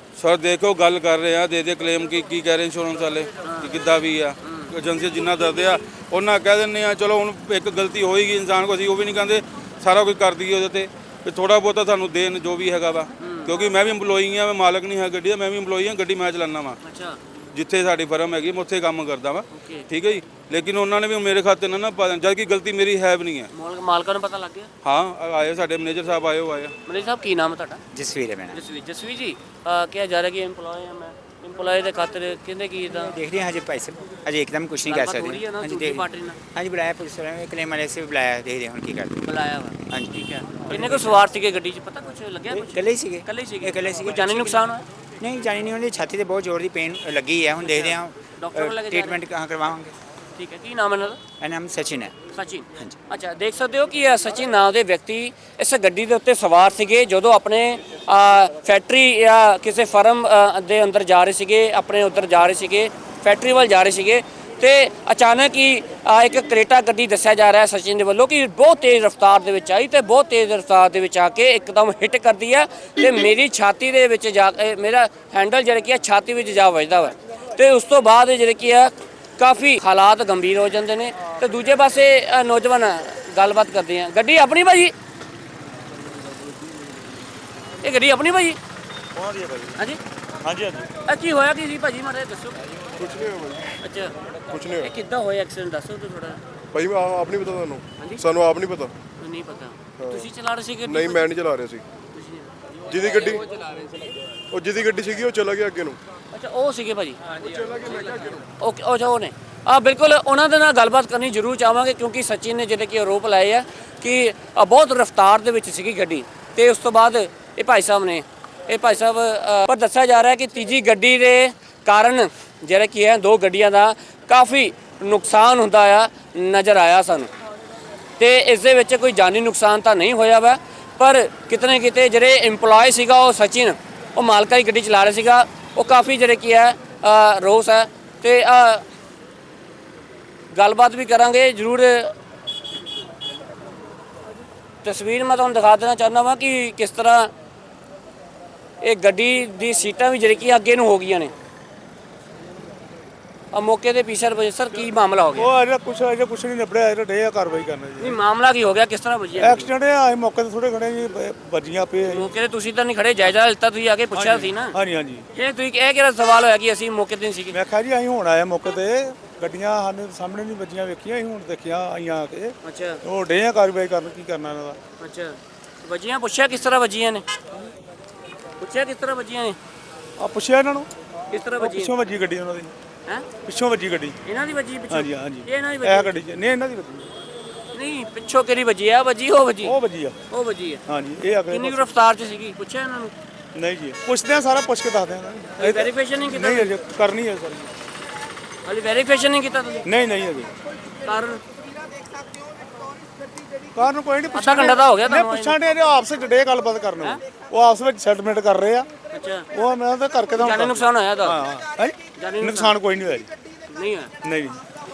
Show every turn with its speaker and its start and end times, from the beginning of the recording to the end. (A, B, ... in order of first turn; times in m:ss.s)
0:00.2-0:16.8 A
0:03.4-0:03.7 B
0:04.4-0:04.7 B
0:13.2-0:13.6 B
0:16.8-0:17.2 B
0:17.5-0:23.5 A
0:19.5-0:19.8 B
0:23.5-0:24.7 B
0:24.8-0:26.7 A
0:26.9-0:27.8 B
0:27.9-0:28.6 C
0:28.5-0:33.2 B
0:33.0-0:39.3 C
0:34.8-0:36.4 B
0:39.2-0:44.8 B
0:39.9-0:41.2 C
0:42.5-0:49.9 C
0:47.6-0:49.2 B
0:50.4-0:51.2 B
0:51.4-0:52.2 C
0:52.3-1:24.9 B
1:27.8-1:28.6 B
1:29.1-1:29.7 D
1:30.4-1:30.9 D
1:31.0-1:32.6 B
1:33.0-1:33.7 E
1:33.8-1:34.1 B
1:34.5-1:34.9 E
1:34.8-1:36.4 B
1:36.7-1:38.9 E
1:39.2-1:41.3 B
1:40.0-1:40.3 E
1:40.8-1:41.8 E
1:42.1-1:42.5 B
1:42.9-1:43.8 E
1:44.5-1:46.0 E
1:46.3-2:07.3 B
1:47.4-1:48.4 E
2:08.2-2:18.8 B
2:20.5-2:22.1 B
2:24.8-2:27.3 B
2:28.8-2:31.3 B
2:33.5-2:35.5 B
2:35.3-2:38.2 D
2:38.0-2:39.7 B
2:39.4-2:42.3 D
2:42.0-2:44.8 B
2:44.1-2:45.3 D
2:45.3-2:47.6 B
2:47.5-2:54.8 D
2:52.6-2:53.0 B
2:55.0-2:57.2 B
2:58.6-2:59.6 B
3:00.2-3:00.9 D
3:01.3-3:01.9 B
3:01.6-3:02.7 D
3:03.4-3:04.2 D
3:04.2-3:06.1 B
3:04.9-3:07.1 D
3:07.7-3:09.8 B
3:09.6-3:10.2 D
3:10.3-3:10.8 B
3:10.9-3:11.9 D
3:11.5-3:13.1 B
3:13.5-3:17.7 D
3:15.6-3:16.7 B
3:18.6-3:19.9 B
3:19.8-3:20.5 D
3:21.0-3:21.4 B
3:23.7-3:28.9 D
3:24.3-3:25.7 B
3:29.1-3:29.5 B
3:29.5-3:33.3 D
3:30.4-3:31.4 B
3:32.2-3:32.8 B
3:33.7-3:34.1 B
3:34.2-3:34.6 D